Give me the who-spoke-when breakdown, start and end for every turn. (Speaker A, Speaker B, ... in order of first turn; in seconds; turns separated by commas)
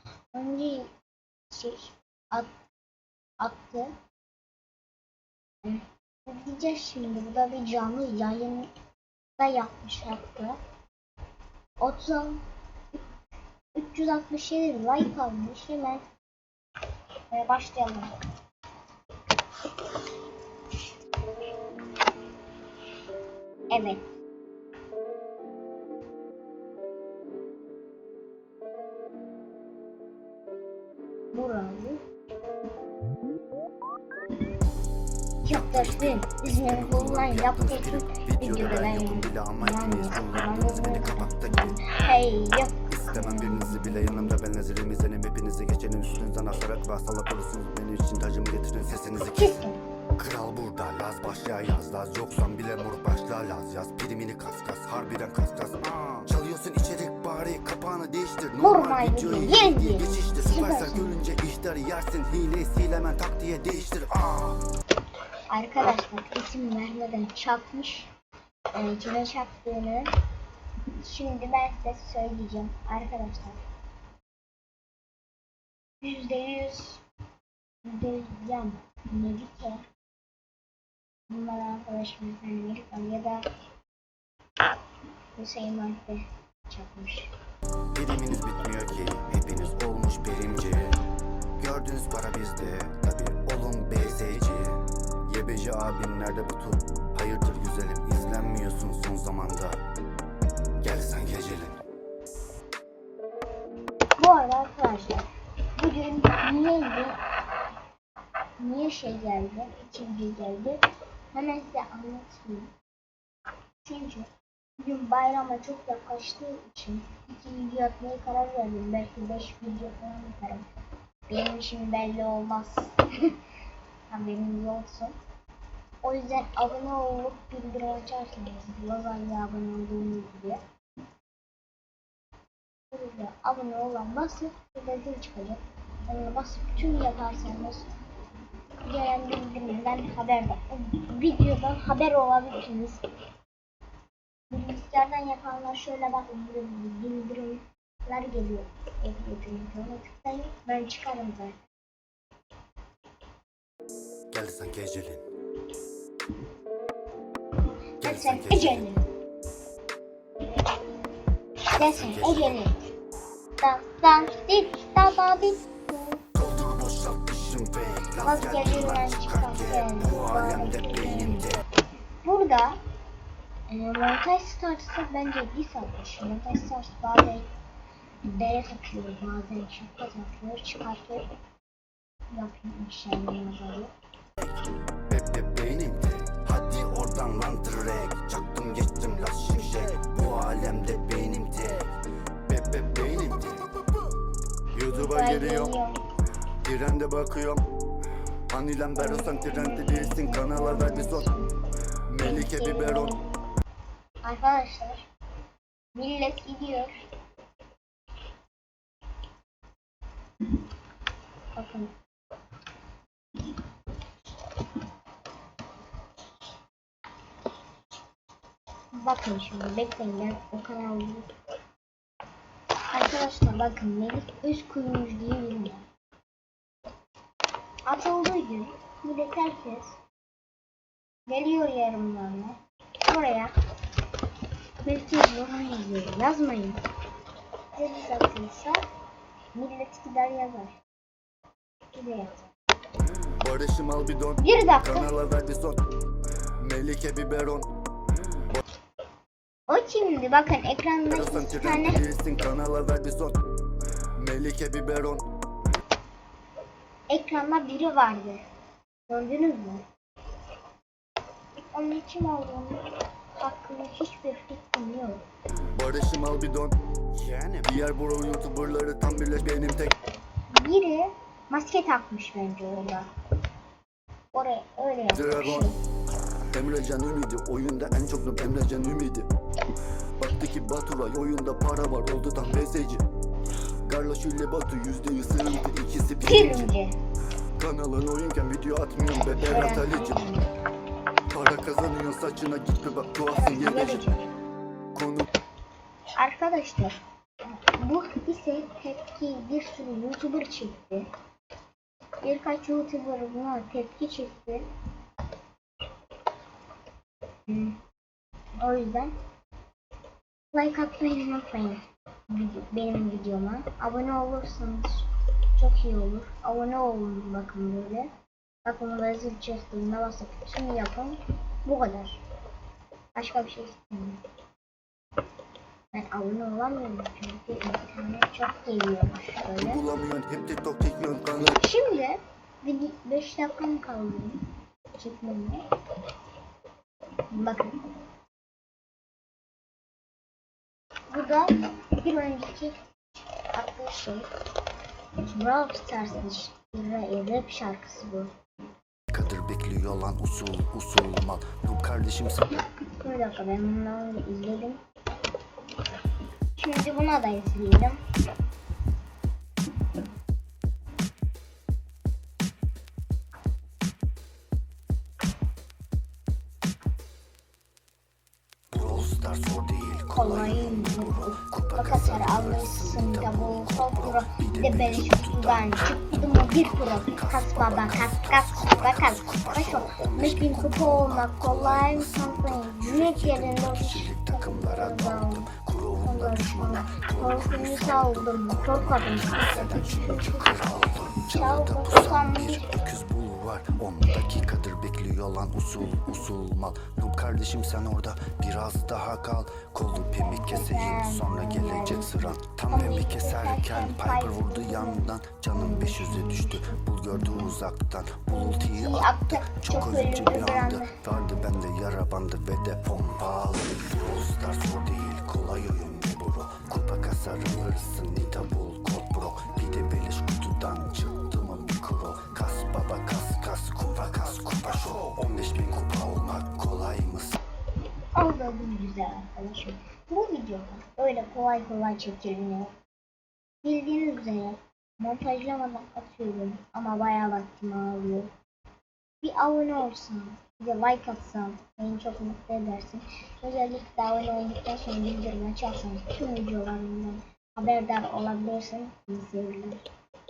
Speaker A: 0.3-0.9, Speaker A: 1.5-2.5, Speaker A: 3.4-3.9, Speaker A: 5.6-8.7, Speaker A: 9.4-10.6, Speaker A: 11.8-12.4, Speaker A: 13.7-16.0, Speaker A: 17.3-18.1, Speaker A: 23.7-24.0, Speaker A: 31.3-32.0, Speaker A: 35.4-44.3, Speaker B: 35.5-41.8, Speaker B: 42.8-49.6, Speaker A: 49.3-49.8, Speaker B: 50.1-64.6, Speaker A: 58.6-61.2, Speaker A: 65.5-68.1, Speaker A: 68.7-70.1, Speaker A: 71.0-73.6, Speaker A: 76.0-77.0, Speaker A: 77.8-79.8, Speaker A: 81.3-83.4, Speaker A: 85.4-87.3, Speaker B: 87.9-91.0, Speaker B: 91.6-99.8, Speaker B: 100.8-101.8, Speaker A: 104.2-107.2, Speaker A: 108.6-110.8, Speaker A: 111.3-112.7, Speaker A: 113.8-120.6, Speaker A: 121.3-123.4, Speaker A: 124.1-125.1, Speaker A: 126.0-130.6, Speaker A: 132.9-137.9, Speaker A: 138.8-143.0, Speaker A: 144.5-151.6, Speaker B: 154.3-155.2, Speaker B: 158.0-158.8, Speaker A: 158.0-159.1, Speaker A: 161.6-162.8, Speaker B: 161.7-162.6, Speaker A: 163.6-166.2, Speaker B: 166.3-171.5, Speaker A: 168.2-171.6, Speaker A: 172.2-172.8, Speaker A: 173.7-177.5, Speaker A: 178.2-181.2, Speaker A: 182.3-183.9, Speaker B: 185.1-191.9, Speaker B: 192.5-193.7, Speaker B: 194.7-195.7, Speaker A: 194.9-196.0, Speaker B: 196.6-197.6, Speaker B: 198.5-201.3, Speaker A: 198.9-201.5, Speaker B: 202.1-203.2, Speaker A: 202.2-203.2, Speaker A: 204.2-205.0, Speaker A: 205.9-207.0, Speaker A: 211.5-211.9, Speaker A: 218.9-221.3, Speaker A: 222.9-225.8, Speaker A: 227.9-230.0, Speaker A: 231.3-233.5, Speaker A: 234.8-236.8, Speaker A: 237.7-238.8, Speaker A: 239.5-240.8, Speaker A: 241.9-242.5, Speaker B: 243.3-245.8, Speaker A: 244.4-245.1, Speaker B: 246.6-247.7, Speaker A: 249.7-252.0, Speaker B: 251.1-253.4, Speaker B: 254.2-255.2, Speaker A: 257.1-258.4, Speaker A: 259.1-259.9, Speaker A: 261.7-262.8, Speaker A: 263.4-265.2, Speaker B: 265.7-269.9, Speaker A: 270.5-273.1, Speaker A: 274.3-275.8, Speaker B: 275.1-275.7, Speaker B: 276.5-279.3, Speaker B: 280.2-283.0, Speaker B: 283.8-286.7, Speaker A: 286.2-286.9, Speaker B: 287.6-290.2, Speaker A: 289.3-290.5, Speaker B: 291.3-294.1, Speaker A: 293.3-294.3, Speaker B: 294.9-295.3, Speaker A: 296.1-301.1, Speaker A: 302.2-304.7, Speaker A: 307.5-307.8, Speaker A: 308.6-309.1, Speaker A: 310.5-318.1, Speaker A: 318.6-322.2, Speaker A: 323.1-324.2, Speaker A: 325.9-329.8, Speaker B: 329.7-331.5, Speaker A: 331.4-334.4, Speaker A: 334.9-335.6, Speaker A: 337.3-337.9, Speaker A: 341.1-342.8, Speaker A: 343.5-344.3, Speaker A: 345.2-348.3, Speaker B: 349.1-352.5, Speaker A: 353.0-354.8, Speaker A: 356.6-358.0, Speaker B: 368.7-427.4, Speaker A: 370.1-385.5, Speaker A: 386.0-392.7, Speaker A: 400.0-407.5, Speaker A: 408.3-411.0, Speaker A: 428.1-432.7, Speaker A: 433.6-438.3, Speaker A: 439.2-449.8